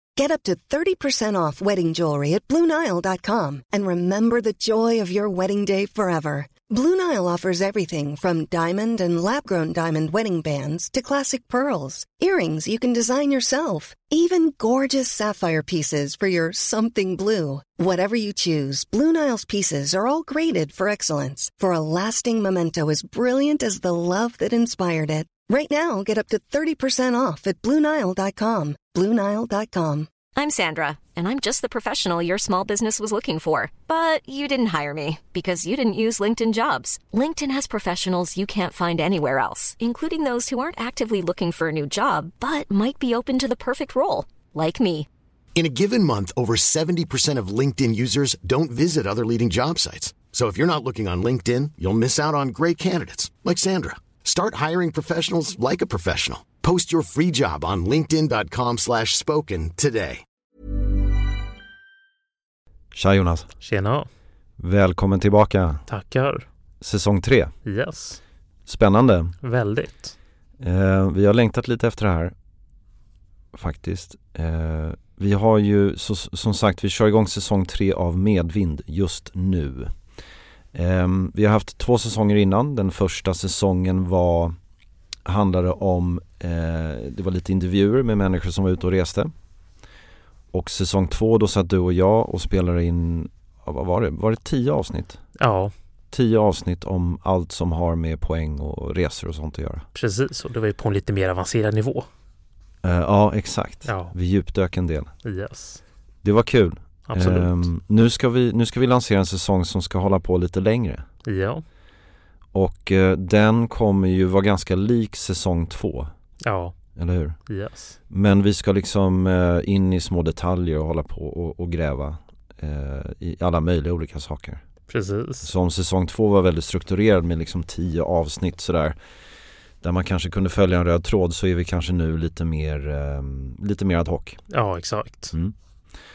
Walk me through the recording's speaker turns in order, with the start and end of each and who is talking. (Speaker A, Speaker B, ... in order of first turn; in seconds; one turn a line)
Speaker A: 0.1-30.1
Speaker B: 30.4-45.1
Speaker C: 45.5-60.2
Speaker D: 62.9-63.5
Speaker E: 63.6-64.1
Speaker D: 64.6-65.8
Speaker E: 65.9-66.5
Speaker D: 66.8-67.5
Speaker E: 67.6-68.2
Speaker D: 68.7-69.3
Speaker E: 69.4-70.1
Speaker D: 70.6-72.3
Speaker D: 73.5-79.9
Speaker D: 80.7-84.5
Speaker D: 85.2-89.3
Speaker D: 90.5-95.2
Speaker E: 95.4-95.7
Speaker D: 96.1-99.8
Speaker E: 99.9-102.1
Speaker D: 102.8-105.1
Speaker E: 103.8-104.1
Speaker E: 105.2-105.8
Speaker D: 106.2-111.0
Speaker E: 107.1-107.7
Speaker E: 111.2-111.6
Speaker D: 112.5-116.1
Speaker E: 116.4-116.7
Speaker D: 117.0-117.4
Speaker E: 117.5-118.0
Speaker D: 118.1-124.6
Speaker E: 124.9-125.5
Speaker D: 125.4-129.0
Speaker D: 129.8-134.4
Speaker E: 134.5-135.3